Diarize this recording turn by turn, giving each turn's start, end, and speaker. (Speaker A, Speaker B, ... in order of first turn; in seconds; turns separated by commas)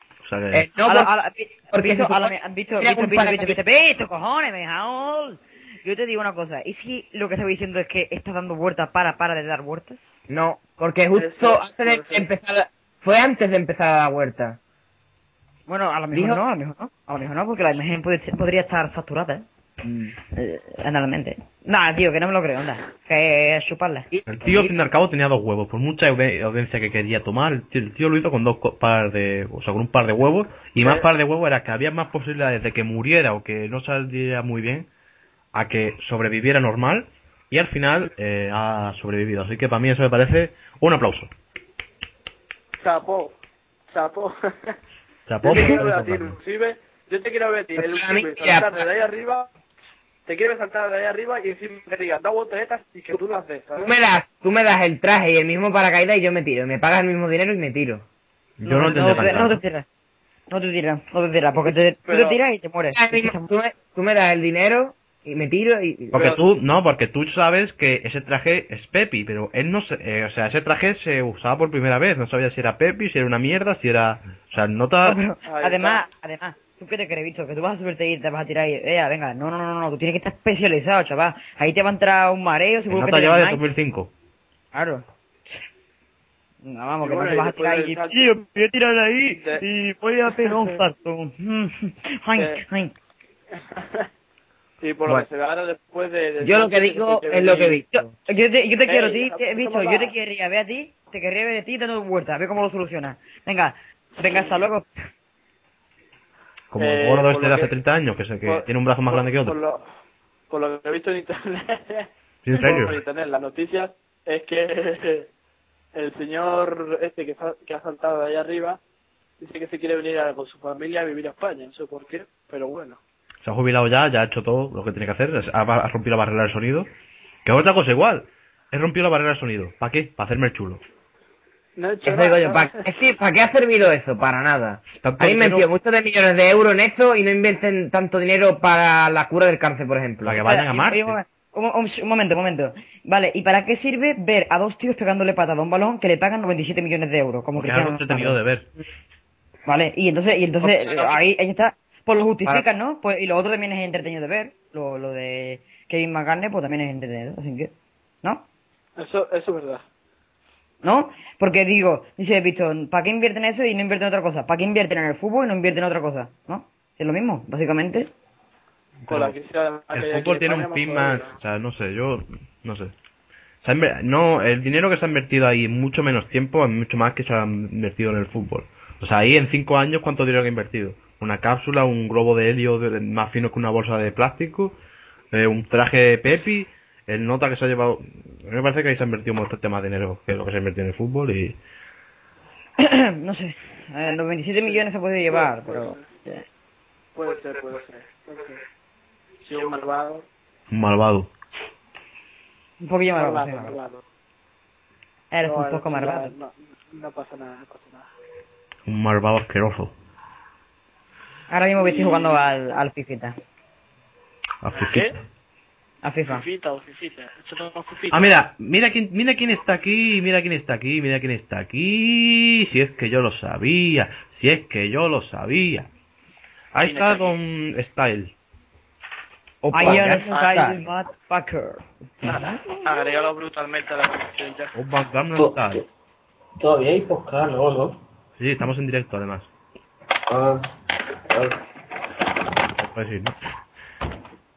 Speaker A: 0.2-0.7, Speaker B: 0.5-1.1, Speaker C: 0.8-10.1, Speaker B: 1.7-3.6, Speaker B: 10.3-14.6, Speaker D: 11.1-12.3, Speaker C: 15.7-19.4, Speaker B: 16.1-16.4, Speaker B: 19.8-20.1, Speaker C: 20.2-24.1, Speaker B: 24.1-24.7, Speaker A: 24.3-34.9, Speaker D: 30.8-31.1, Speaker A: 35.5-41.3, Speaker D: 42.8-43.4, Speaker D: 43.9-44.8, Speaker A: 45.3-46.4, Speaker D: 45.4-49.5, Speaker B: 47.8-48.8, Speaker D: 50.2-53.9, Speaker B: 53.8-58.0, Speaker A: 58.6-59.6, Speaker C: 58.6-59.9, Speaker D: 58.7-59.5, Speaker C: 60.5-63.5, Speaker D: 61.6-62.4, Speaker B: 62.9-66.2, Speaker D: 66.1-66.5, Speaker A: 66.1-75.2, Speaker C: 75.0-83.6, Speaker D: 75.4-76.0, Speaker A: 82.9-84.1, Speaker C: 84.7-85.0, Speaker C: 86.6-92.9, Speaker D: 87.0-88.3, Speaker D: 89.3-89.6, Speaker D: 90.3-90.8, Speaker D: 92.3-92.6, Speaker D: 93.5-94.1, Speaker D: 94.8-97.8, Speaker B: 96.4-98.1, Speaker C: 97.9-104.9, Speaker D: 98.9-100.1, Speaker D: 104.2-104.6, Speaker A: 106.7-109.5, Speaker D: 106.8-107.7, Speaker D: 108.4-109.8, Speaker D: 110.5-115.3, Speaker A: 112.4-113.0, Speaker D: 115.9-118.8, Speaker D: 119.4-123.0, Speaker A: 123.4-126.9, Speaker A: 127.4-130.8, Speaker D: 131.8-132.9, Speaker B: 132.0-140.4, Speaker A: 135.0-135.7, Speaker A: 140.2-141.2, Speaker C: 140.4-148.4, Speaker A: 147.6-148.7, Speaker C: 149.7-157.7, Speaker B: 150.6-151.1, Speaker D: 159.0-159.8, Speaker C: 160.8-168.1, Speaker A: 169.0-169.3, Speaker D: 169.1-171.3, Speaker A: 169.9-172.9, Speaker A: 173.6-184.7, Speaker A: 185.3-191.6, Speaker C: 192.8-196.4, Speaker D: 194.6-196.1, Speaker D: 197.1-198.6, Speaker D: 199.4-200.2, Speaker A: 200.7-201.3, Speaker C: 202.8-203.8, Speaker D: 203.2-204.0, Speaker C: 205.3-206.3, Speaker D: 205.4-208.1, Speaker A: 208.9-209.9, Speaker C: 211.5-213.3, Speaker D: 211.8-212.4, Speaker A: 214.6-215.1, Speaker D: 214.7-215.1, Speaker C: 216.0-216.4, Speaker D: 216.3-218.3, Speaker A: 218.1-225.9, Speaker A: 226.7-228.3, Speaker D: 226.8-227.3, Speaker B: 229.6-230.7, Speaker C: 229.7-232.6, Speaker D: 230.3-230.7, Speaker D: 232.2-234.7, Speaker A: 234.7-235.8, Speaker E: 235.4-235.8, Speaker E: 236.6-238.0, Speaker A: 238.4-239.5, Speaker E: 240.3-240.7, Speaker E: 241.3-241.6, Speaker A: 242.8-243.3